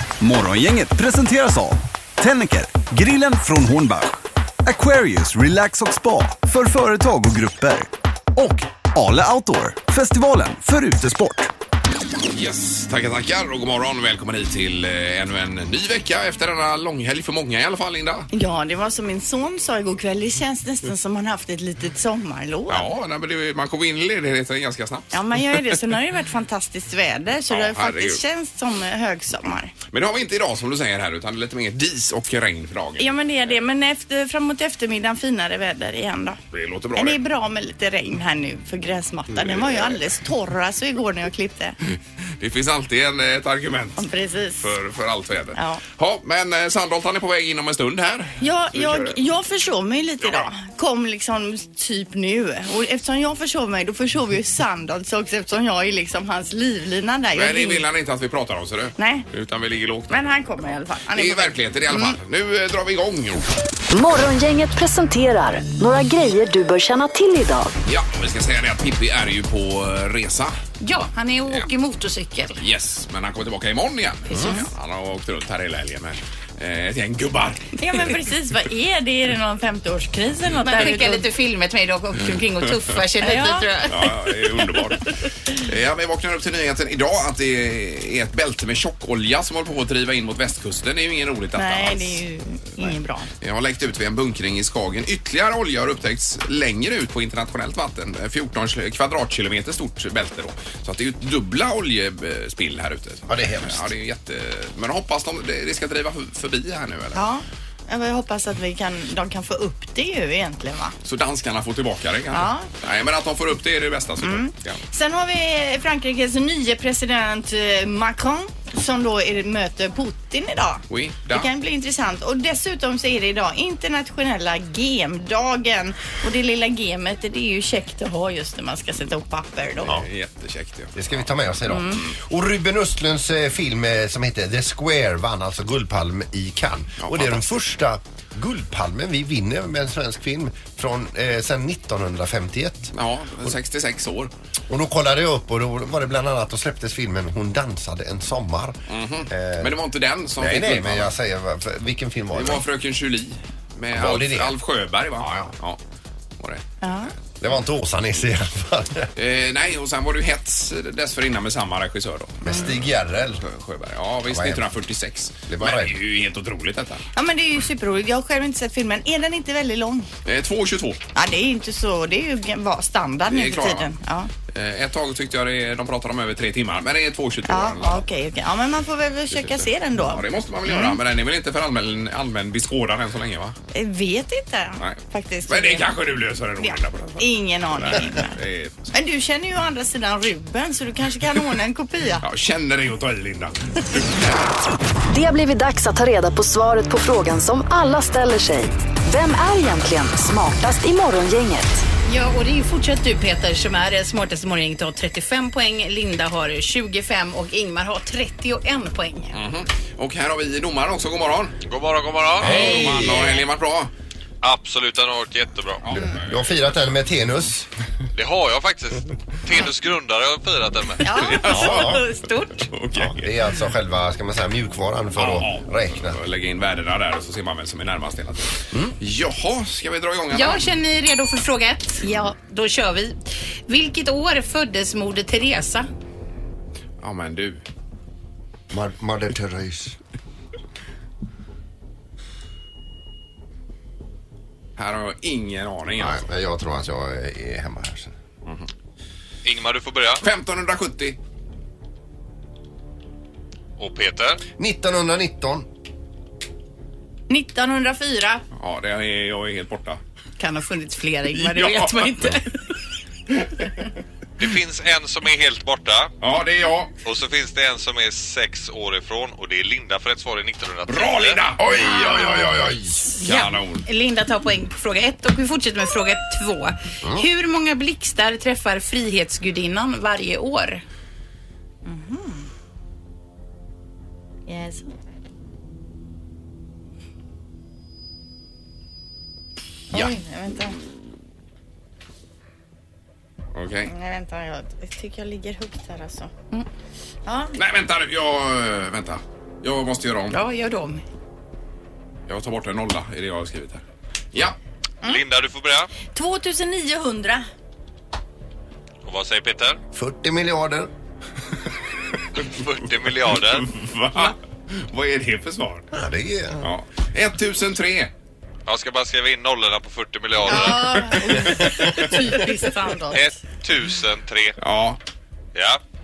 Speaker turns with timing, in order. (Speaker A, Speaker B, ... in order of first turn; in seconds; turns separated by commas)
Speaker A: 0.2-11.5, Speaker B: 12.3-18.3, Speaker C: 18.3-22.9, Speaker B: 22.7-25.8, Speaker C: 25.1-29.7, Speaker B: 27.5-28.2, Speaker B: 29.9-33.1, Speaker C: 33.0-36.4, Speaker B: 36.5-37.2, Speaker C: 36.9-41.8, Speaker B: 39.4-40.0, Speaker B: 41.9-44.0, Speaker C: 44.0-44.7, Speaker B: 44.6-49.2, Speaker C: 45.5-45.8, Speaker C: 48.4-57.8, Speaker B: 50.2-50.5, Speaker B: 57.3-60.2, Speaker C: 59.0-59.2, Speaker C: 60.1-62.2, Speaker B: 61.1-63.5, Speaker D: 63.9-67.7, Speaker B: 67.8-70.6, Speaker E: 70.8-72.6, Speaker B: 72.6-77.8, Speaker E: 74.3-74.6, Speaker C: 74.3-74.6, Speaker C: 77.8-81.3, Speaker E: 80.6-84.1, Speaker C: 83.2-83.7, Speaker B: 83.9-92.2, Speaker C: 91.5-93.3, Speaker B: 93.4-107.2, Speaker F: 103.3-103.9, Speaker C: 107.1-110.9, Speaker B: 111.0-114.8, Speaker C: 112.3-112.7, Speaker C: 114.2-129.9, Speaker B: 120.9-121.5, Speaker B: 129.9-131.3, Speaker F: 130.9-142.9, Speaker C: 131.7-132.0, Speaker B: 137.0-137.5, Speaker B: 142.9-144.3, Speaker F: 144.7-148.8, Speaker B: 148.9-151.1, Speaker F: 149.3-149.8, Speaker F: 150.4-152.6, Speaker B: 152.3-155.8, Speaker F: 153.9-154.6, Speaker F: 155.2-155.5, Speaker B: 156.4-156.6, Speaker C: 156.8-157.1, Speaker F: 157.4-159.1, Speaker B: 159.2-167.1, Speaker F: 162.4-163.4, Speaker F: 164.3-164.6, Speaker F: 165.5-166.0, Speaker C: 167.1-170.1, Speaker B: 170.2-171.0, Speaker C: 171.1-174.3, Speaker B: 173.3-173.9, Speaker B: 174.5-178.0, Speaker C: 177.5-181.0, Speaker B: 179.3-183.6, Speaker C: 183.7-185.9, Speaker B: 184.8-188.9, Speaker C: 186.6-188.4, Speaker C: 188.9-192.2, Speaker B: 192.2-194.3, Speaker D: 195.1-201.8, Speaker E: 202.1-209.4, Speaker B: 209.3-211.6, Speaker G: 211.7-212.6, Speaker F: 212.4-213.3, Speaker B: 212.4-213.9, Speaker C: 212.6-213.4, Speaker G: 214.4-216.0, Speaker B: 215.8-216.6, Speaker F: 216.0-217.7, Speaker G: 218.1-221.1, Speaker C: 221.0-222.0, Speaker B: 221.1-222.0, Speaker F: 221.5-222.0, Speaker E: 221.5-222.7, Speaker B: 222.7-223.4, Speaker F: 222.9-226.2, Speaker B: 225.2-230.7, Speaker E: 230.3-235.9, Speaker B: 237.0-237.6, Speaker F: 238.7-240.0, Speaker B: 244.8-246.2, Speaker F: 246.0-248.1, Speaker G: 249.4-250.2, Speaker B: 250.2-251.2, Speaker G: 253.8-254.4, Speaker F: 254.6-255.7, Speaker C: 257.3-258.4, Speaker B: 258.5-260.0, Speaker C: 260.4-261.9, Speaker E: 260.4-262.4, Speaker B: 261.3-262.4, Speaker B: 263.3-263.7, Speaker G: 264.4-266.1, Speaker B: 266.2-266.9, Speaker G: 267.0-271.4, Speaker B: 270.9-272.3, Speaker F: 271.7-273.1, Speaker E: 273.2-280.8, Speaker B: 273.2-273.8, Speaker C: 281.8-282.5, Speaker C: 284.5-284.9, Speaker C: 289.9-290.8, Speaker B: 293.5-293.9, Speaker C: 293.9-296.5, Speaker C: 297.2-297.6, Speaker B: 297.6-300.4, Speaker E: 300.3-301.0, Speaker B: 302.3-304.6, Speaker G: 305.0-305.9, Speaker C: 306.1-307.4, Speaker G: 309.0-309.8, Speaker F: 309.9-310.9, Speaker G: 312.4-313.7, Speaker B: 313.2-315.9, Speaker F: 315.9-316.7, Speaker B: 316.6-318.1, Speaker G: 318.7-321.2, Speaker C: 320.4-323.3, Speaker F: 321.4-321.9, Speaker G: 323.1-324.5, Speaker B: 324.6-325.0, Speaker G: 325.5-325.8